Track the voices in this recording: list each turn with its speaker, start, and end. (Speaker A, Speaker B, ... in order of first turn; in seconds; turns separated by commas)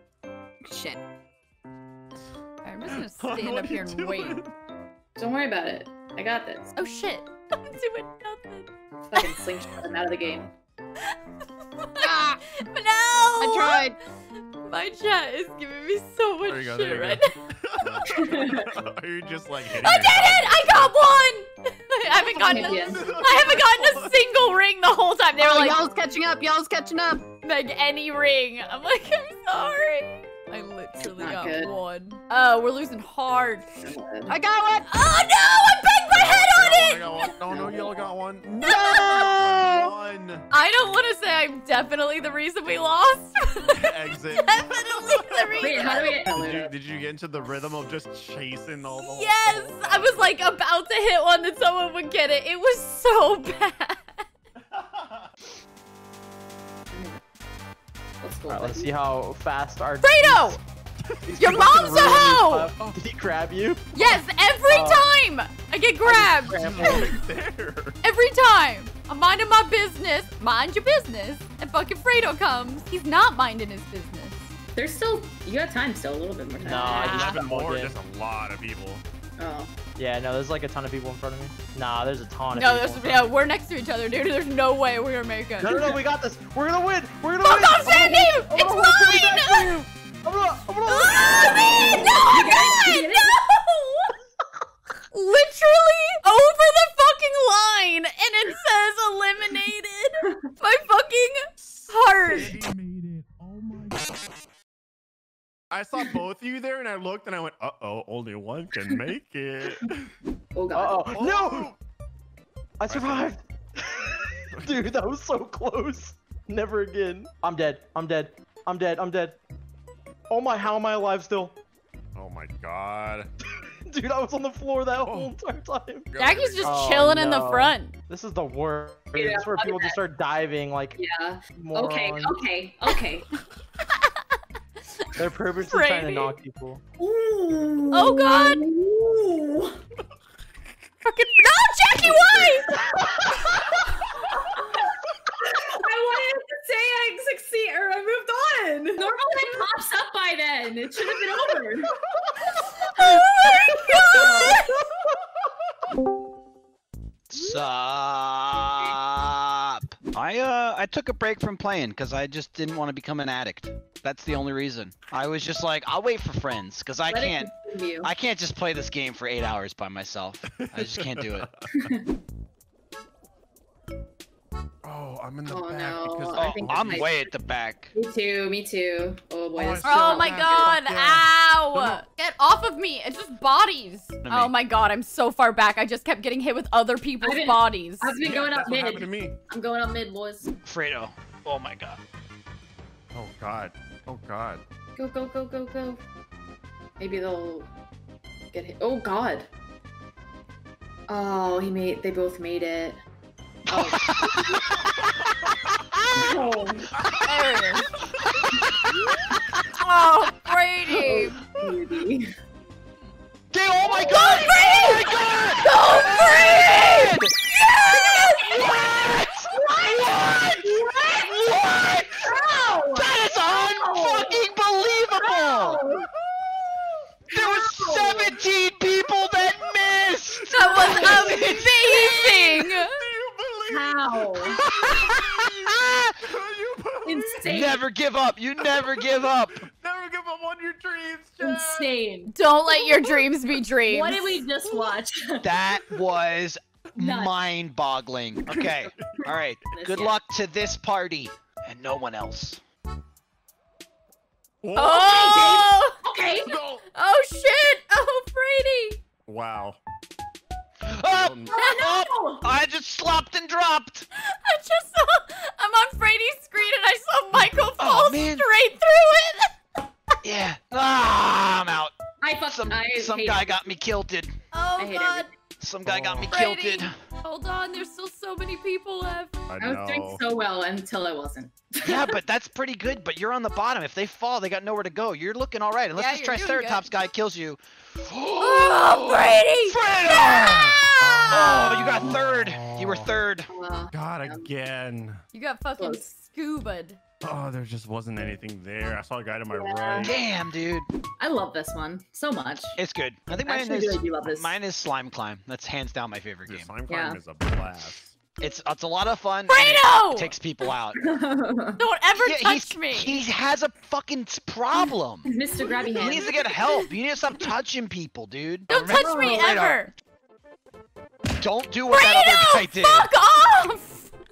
Speaker A: 0.6-1.0, Speaker B: 2.6-4.4, Speaker C: 3.2-4.5, Speaker D: 5.2-6.7, Speaker B: 6.8-9.3, Speaker D: 9.1-10.4, Speaker C: 9.6-10.5, Speaker B: 11.8-13.9, Speaker A: 12.0-12.4, Speaker A: 13.4-13.9, Speaker B: 14.6-17.3, Speaker C: 16.4-20.9, Speaker D: 18.1-18.7, Speaker B: 19.8-25.8, Speaker C: 22.4-24.2, Speaker D: 22.5-23.0, Speaker A: 25.4-27.2, Speaker B: 27.3-33.9, Speaker D: 31.0-31.7, Speaker D: 33.8-34.3, Speaker A: 34.3-34.9, Speaker B: 34.8-37.3, Speaker C: 36.1-40.4, Speaker D: 37.5-37.8, Speaker B: 38.6-39.3, Speaker E: 38.6-39.9, Speaker B: 40.5-46.2, Speaker C: 43.7-50.4, Speaker D: 45.6-46.7, Speaker B: 48.9-54.2, Speaker C: 54.8-55.3, Speaker D: 56.9-57.2, Speaker D: 58.2-58.9, Speaker F: 58.5-60.6, Speaker B: 60.0-60.6, Speaker C: 61.1-61.7, Speaker F: 61.2-65.1, Speaker B: 61.4-62.7, Speaker B: 63.9-67.2, Speaker F: 66.0-67.1, Speaker C: 66.5-68.0, Speaker B: 68.0-74.5, Speaker D: 74.7-77.2, Speaker F: 76.6-78.0, Speaker B: 76.9-77.4, Speaker C: 77.1-79.0, Speaker D: 79.4-79.7, Speaker F: 79.9-83.3, Speaker B: 82.5-85.9, Speaker F: 85.6-92.2, Speaker D: 85.7-86.0, Speaker B: 87.4-89.9, Speaker B: 90.8-94.1, Speaker D: 92.0-93.4, Speaker B: 95.1-102.5, Speaker C: 101.6-104.0, Speaker C: 105.7-110.1, Speaker D: 110.5-111.1, Speaker F: 110.7-111.7, Speaker C: 111.1-111.8, Speaker F: 112.8-119.4, Speaker C: 112.8-113.3, Speaker F: 120.3-121.5, Speaker C: 122.1-123.3, Speaker F: 123.6-126.1, Speaker C: 125.0-125.3, Speaker C: 126.1-127.1, Speaker B: 126.2-127.9, Speaker F: 126.6-131.0, Speaker D: 129.1-130.0, Speaker D: 131.0-133.3, Speaker F: 131.6-132.4, Speaker B: 134.9-136.4, Speaker F: 135.2-136.8, Speaker D: 137.0-139.8, Speaker B: 137.9-138.6, Speaker B: 141.0-142.7, Speaker D: 142.1-143.5, Speaker D: 144.4-144.8, Speaker D: 145.4-151.9, Speaker B: 152.8-154.7, Speaker D: 153.4-154.8, Speaker E: 157.3-167.5, Speaker D: 167.1-168.1, Speaker E: 168.0-171.5, Speaker C: 170.5-171.6, Speaker D: 171.8-172.0, Speaker C: 174.8-177.1, Speaker D: 175.4-177.2, Speaker E: 176.3-177.9, Speaker D: 177.9-180.8, Speaker C: 179.5-182.0, Speaker B: 179.8-188.1, Speaker E: 184.2-184.5, Speaker D: 187.2-190.5, Speaker C: 188.1-189.3, Speaker E: 190.7-192.0, Speaker C: 193.1-194.6, Speaker D: 194.9-196.0, Speaker D: 197.0-197.7, Speaker D: 198.5-199.5, Speaker D: 201.1-203.0, Speaker D: 203.7-204.6, Speaker E: 203.7-204.9, Speaker E: 205.5-206.1, Speaker D: 206.2-206.9, Speaker E: 207.0-207.2, Speaker B: 207.2-207.9, Speaker E: 208.2-208.8, Speaker B: 209.7-211.4, Speaker D: 211.0-212.3, Speaker E: 213.5-217.3, Speaker D: 213.8-214.4, Speaker B: 213.9-218.8, Speaker E: 217.9-222.2, Speaker D: 218.4-221.6, Speaker D: 222.2-224.5, Speaker E: 222.9-225.8, Speaker D: 225.2-226.1, Speaker E: 227.3-231.7, Speaker D: 227.3-228.3, Speaker C: 230.3-237.5, Speaker B: 230.5-232.9, Speaker D: 230.7-231.5, Speaker D: 233.7-234.6, Speaker E: 234.6-236.1, Speaker D: 237.0-237.8, Speaker E: 237.4-239.6, Speaker C: 238.6-242.0, Speaker D: 241.4-242.3, Speaker B: 242.3-244.5, Speaker D: 243.9-245.5, Speaker E: 245.4-252.6, Speaker D: 247.0-247.3, Speaker C: 248.9-249.2, Speaker D: 249.7-250.2, Speaker C: 254.6-255.3, Speaker B: 254.7-255.9, Speaker D: 255.0-256.6, Speaker C: 256.4-256.8, Speaker B: 256.9-259.0, Speaker C: 259.3-259.8, Speaker E: 260.9-264.1, Speaker C: 261.1-261.6, Speaker D: 261.5-262.5, Speaker B: 264.1-269.5, Speaker E: 267.8-268.4, Speaker E: 270.2-274.3, Speaker D: 272.2-273.8, Speaker B: 274.5-275.3, Speaker D: 274.8-275.3, Speaker E: 275.6-276.9, Speaker C: 275.8-276.4, Speaker B: 276.3-279.4, Speaker C: 279.5-280.2, Speaker D: 279.6-282.1, Speaker E: 281.8-293.5, Speaker B: 285.9-286.8, Speaker B: 288.4-291.9, Speaker C: 290.8-293.1, Speaker D: 293.5-294.4, Speaker C: 293.9-295.2, Speaker B: 295.3-297.0, Speaker C: 297.2-300.1, Speaker D: 299.5-300.2, Speaker E: 300.0-300.9, Speaker D: 301.2-302.8, Speaker E: 302.8-306.8, Speaker D: 303.3-304.5, Speaker C: 306.4-308.2, Speaker D: 306.9-307.2, Speaker E: 308.4-311.0, Speaker B: 309.5-310.3, Speaker D: 311.0-311.8, Speaker B: 311.8-313.2, Speaker E: 312.1-315.3, Speaker D: 315.2-316.4, Speaker B: 315.6-316.5, Speaker E: 315.9-319.9, Speaker B: 318.7-319.9, Speaker D: 318.9-319.6, Speaker E: 321.4-323.1, Speaker B: 321.9-324.1